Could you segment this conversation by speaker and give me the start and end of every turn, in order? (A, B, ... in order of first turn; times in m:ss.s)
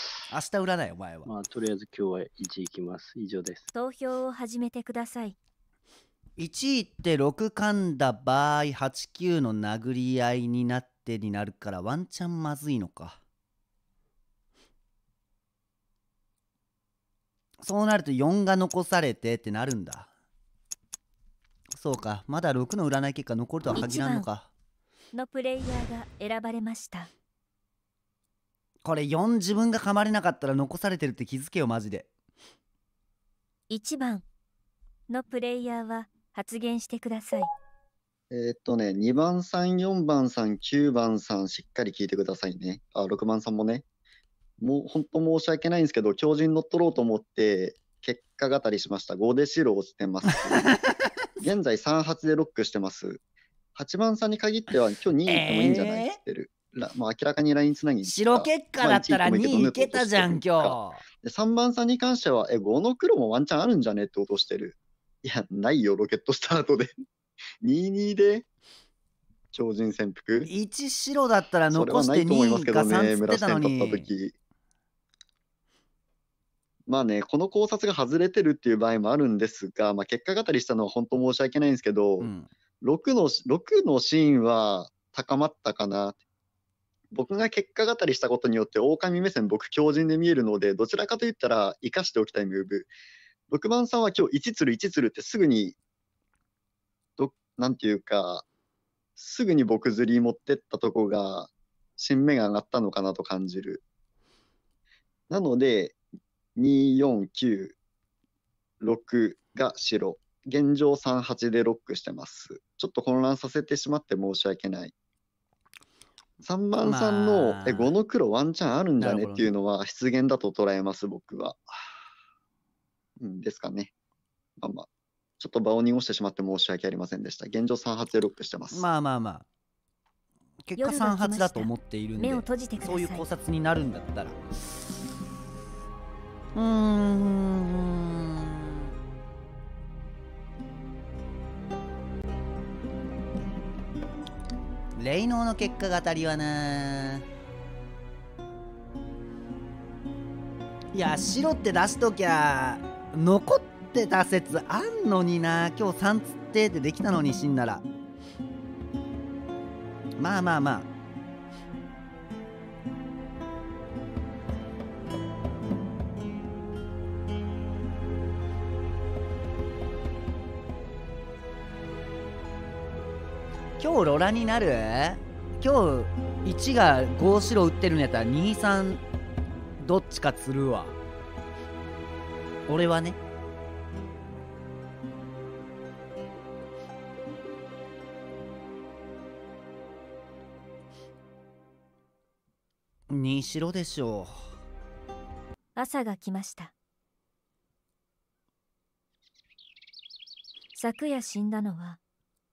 0:00.3-0:01.3 A
0:01.2-0:03.7 B
0:03.7-0:05.4 C
0:06.4-0:13.2 A
0:17.6-0:20.1 A
0:21.7-0:24.5 A
0:23.7-0:24.3 C
0:25.1-0:27.1 C
0:28.8-0:32.1 A
0:33.7-0:34.2 C
0:35.1-0:37.5 C
0:38.3-0:43.8 D
0:44.6-0:50.7 D
0:50.4-0:51.1 A
0:51.4-0:53.2 D
0:53.7-1:07.0 D
0:55.3-0:56.2 A
0:58.0-1:01.0 A
1:07.6-1:08.4 D
1:09.5-1:10.5 D
1:10.4-1:14.1 A
1:11.7-1:14.3 D
1:16.9-1:26.2 D
1:22.2-1:22.5 A
1:27.1-1:32.9 D
1:33.5-1:35.8 D
1:37.2-1:38.4 D
1:39.2-1:43.8 D
1:45.3-1:46.0 D
1:46.6-1:47.7 D
1:48.8-1:54.9 D
1:56.4-2:01.6 D
1:56.8-1:57.9 A
1:59.0-1:59.5 A
2:03.2-2:03.9 D
2:04.6-2:04.9 D
2:05.4-2:08.9 D
2:08.7-2:09.4 A
2:10.6-2:14.4 A
2:10.8-2:13.3 C
2:16.6-2:18.9 A
2:25.0-2:27.2 A
2:30.9-2:37.8 A
2:40.2-2:40.9 A
2:53.8-2:59.0 A
2:59.8-3:01.0 A
3:02.7-3:03.2 A
3:13.1-3:14.5 A
3:15.7-3:16.7 C
3:20.7-3:22.0 C